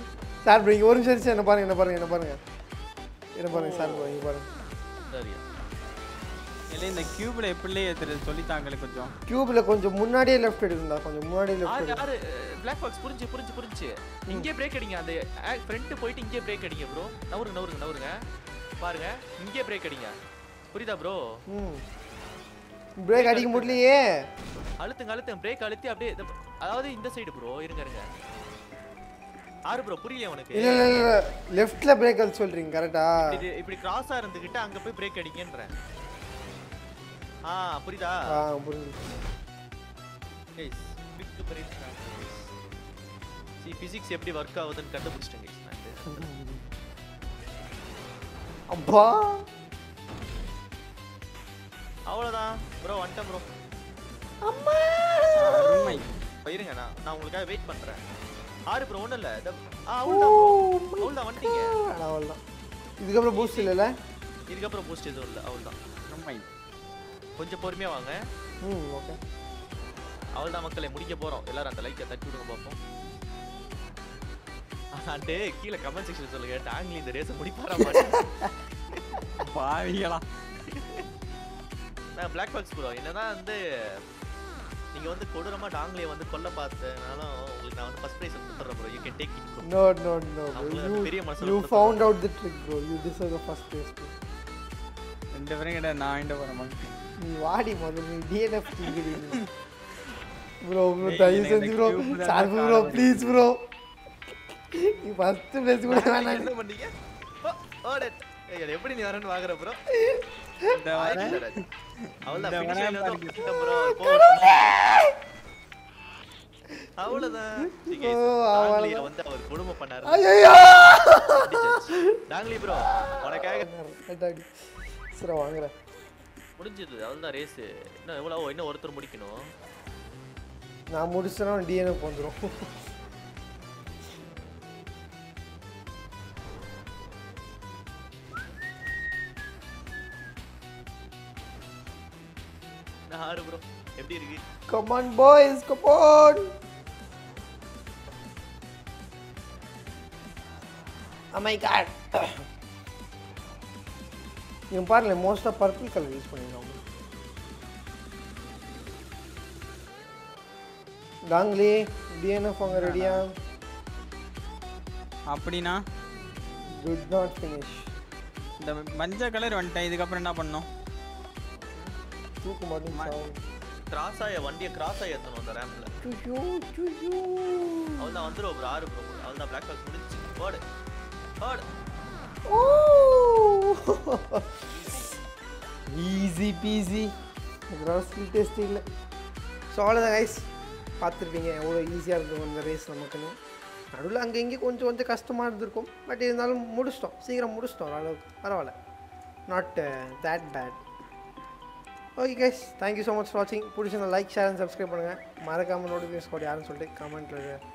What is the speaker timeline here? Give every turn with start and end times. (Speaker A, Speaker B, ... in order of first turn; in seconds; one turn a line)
Speaker A: 0.4-2.4
Speaker A: 3.4-4.5
Speaker B: 3.5-4.2
Speaker B: 5.1-5.4
Speaker C: 6.7-9.1
Speaker A: 9.3-12.0
Speaker B: 11.7-18.1
Speaker B: 18.8-20.1
Speaker B: 20.7-21.4
Speaker A: 21.5-21.9
Speaker A: 23.0-24.2
Speaker B: 23.1-23.8
Speaker B: 24.8-28.1
Speaker B: 29.7-31.1
Speaker A: 30.5-33.4
Speaker B: 33.2-35.8
Speaker B: 37.5-38.2
Speaker A: 38.3-39.2
Speaker B: 40.6-42.5
Speaker B: 43.6-46.2
Speaker A: 46.1-46.6
Speaker A: 48.7-49.4
Speaker B: 52.1-53.5
Speaker A: 54.4-56.0
Speaker C: 55.4-56.1
Speaker B: 56.4-58.0
Speaker B: 58.7-61.7
Speaker A: 60.1-62.4
Speaker A: 63.0-63.9
Speaker B: 63.3-63.7
Speaker B: 64.5-65.8
Speaker C: 66.1-66.4
Speaker B: 67.4-68.2
Speaker A: 68.6-69.2
Speaker B: 70.4-72.8
Speaker B: 74.9-78.3
Speaker A: 77.9-78.5
Speaker C: 79.4-80.2
Speaker B: 80.7-81.0
Speaker B: 82.2-83.6
Speaker B: 84.9-89.7
Speaker A: 89.6-94.1
Speaker B: 90.5-92.1
Speaker C: 95.3-96.8
Speaker A: 97.2-99.5
Speaker A: 100.6-103.6
Speaker C: 101.0-103.4
Speaker A: 104.7-106.5
Speaker B: 105.9-109.8
Speaker A: 109.9-110.8
Speaker C: 110.7-113.5
Speaker B: 110.9-111.6
Speaker B: 112.2-114.7
Speaker A: 113.4-115.2
Speaker A: 116.9-119.1
Speaker B: 117.0-120.3
Speaker A: 120.0-122.2
Speaker B: 121.3-123.7
Speaker A: 122.9-124.5
Speaker A: 125.1-125.7
Speaker B: 126.6-129.4
Speaker A: 130.9-132.7
Speaker B: 143.1-144.4
Speaker A: 144.7-146.5
Speaker A: 151.3-152.4
Speaker A: 154.7-156.8
Speaker A: 161.2-163.3
Speaker C: 162.6-163.2
Speaker C: 165.3-165.8
Speaker A: 166.8-167.9
Speaker C: 168.6-170.7
Speaker A: 172.4-173.4
Speaker B: 173.9-175.9
Speaker A: 176.0-178.2
Speaker B: 178.0-180.6
Speaker B: 181.4-181.7
Speaker A: 182.5-184.7
Speaker B: 184.7-185.1
Speaker A: 185.9-187.1
Speaker A: 187.7-188.8
Speaker A: 189.7-190.5
Speaker A: 191.0-193.4
Speaker A: 193.9-198.7
Speaker A: 199.5-200.8
Speaker A: 202.2-207.6